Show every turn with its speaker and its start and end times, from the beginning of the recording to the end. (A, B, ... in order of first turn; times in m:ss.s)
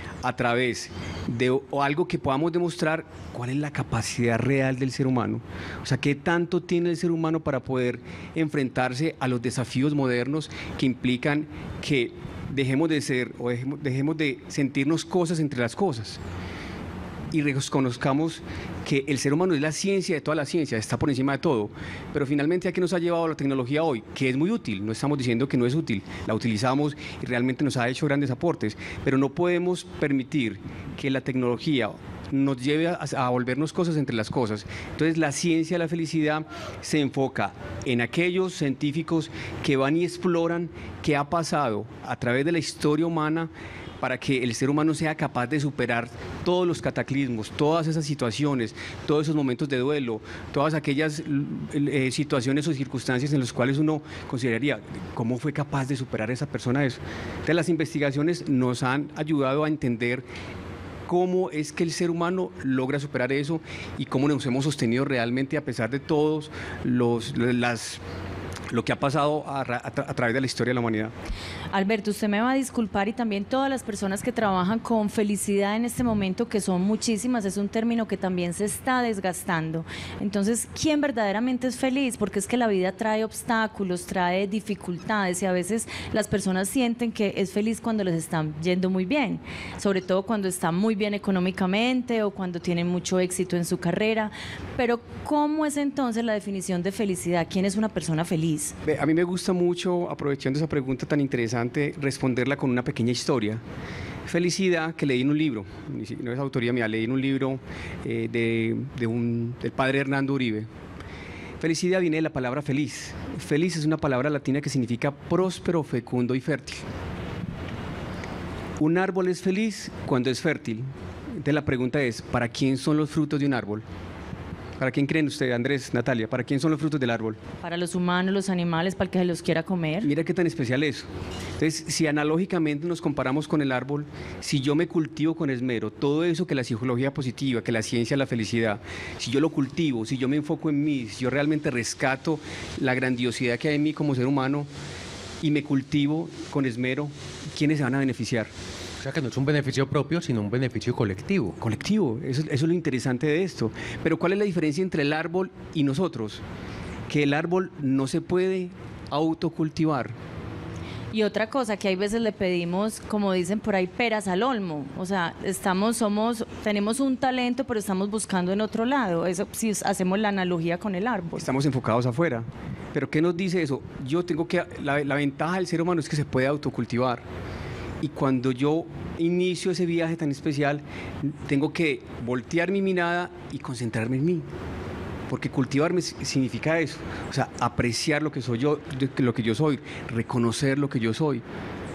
0:00.2-0:16.2 A
0:17.3-1:00.2 A
1:01.1-1:08.0 A
1:08.7-1:11.1 A
1:11.7-1:38.8 B
1:38.8-1:43.6 A
1:44.3-1:50.7 A
1:51.6-1:56.8 A
1:58.8-2:03.8 A
2:04.8-2:07.4 A
2:07.6-2:10.1 B
2:10.0-2:11.1 A
2:11.6-2:24.7 A
2:25.4-2:28.5 A
2:29.0-2:31.6 C
2:31.6-2:36.4 A
2:37.1-2:40.1 A
2:41.1-2:51.5 B
2:51.4-2:57.2 A
2:58.0-3:04.4 A
3:05.3-3:11.4 A